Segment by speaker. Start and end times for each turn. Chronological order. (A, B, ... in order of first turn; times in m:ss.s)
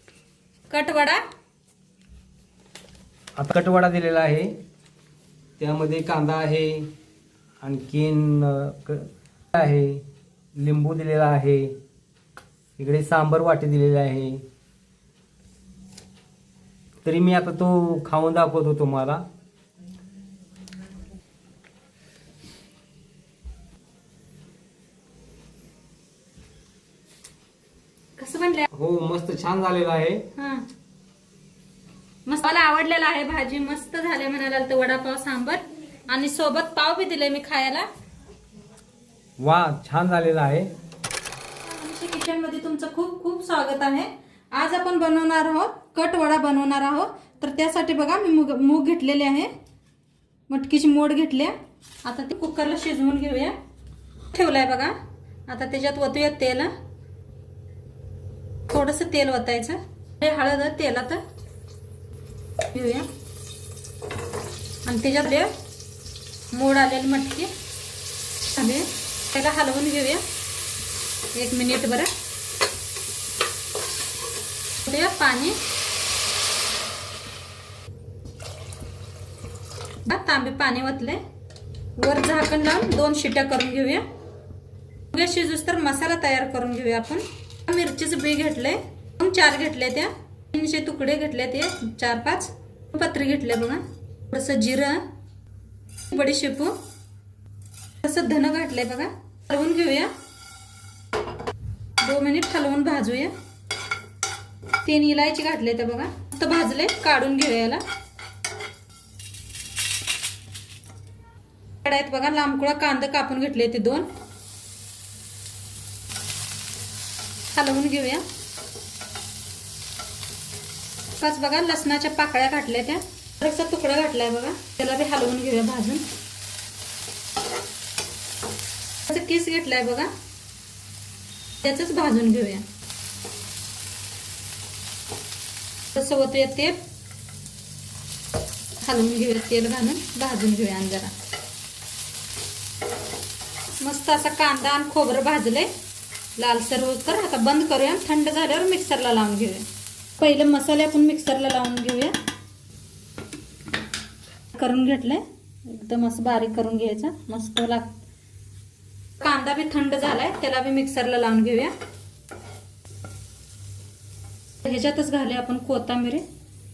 0:00.7-0:01.2 A
0:03.4-0:04.5 B
0:05.6-0:06.9 B
0:07.6-0:10.0 B
0:10.6-0:11.8 B
0:12.8-0:14.4 B
0:17.0-0:19.2 B
0:28.2-0:28.6 A
0:28.7-0:30.2 B
0:30.4-0:30.6 A
0:32.2-0:37.9 A
0:39.4-0:40.7 B
0:41.6-0:49.5 A
0:50.5-0:51.5 A
0:52.0-0:53.6 A
0:54.3-0:54.9 A
0:55.5-0:56.7 A
0:58.7-1:01.2 A
1:02.7-1:03.1 A
1:04.8-1:05.5 A
1:06.5-1:07.5 A
1:08.5-1:10.2 A
1:11.3-1:12.1 A
1:14.8-1:15.6 A
1:20.0-1:21.2 A
1:22.0-1:24.0 A
1:25.1-1:35.0 A
1:36.1-1:36.8 A
1:38.0-1:40.1 A
1:42.0-1:43.3 A
1:44.8-1:47.8 A
1:51.8-1:54.1 A
1:57.5-1:58.2 A
2:01.2-2:06.0 A
2:09.0-2:10.1 A
2:11.6-2:12.6 A
2:15.9-2:16.8 A
2:18.8-2:21.1 A
2:23.8-2:25.7 A
2:26.4-2:29.6 A
2:30.2-2:32.1 A
2:34.5-2:38.0 A
2:39.2-2:41.7 A
2:44.6-2:46.2 A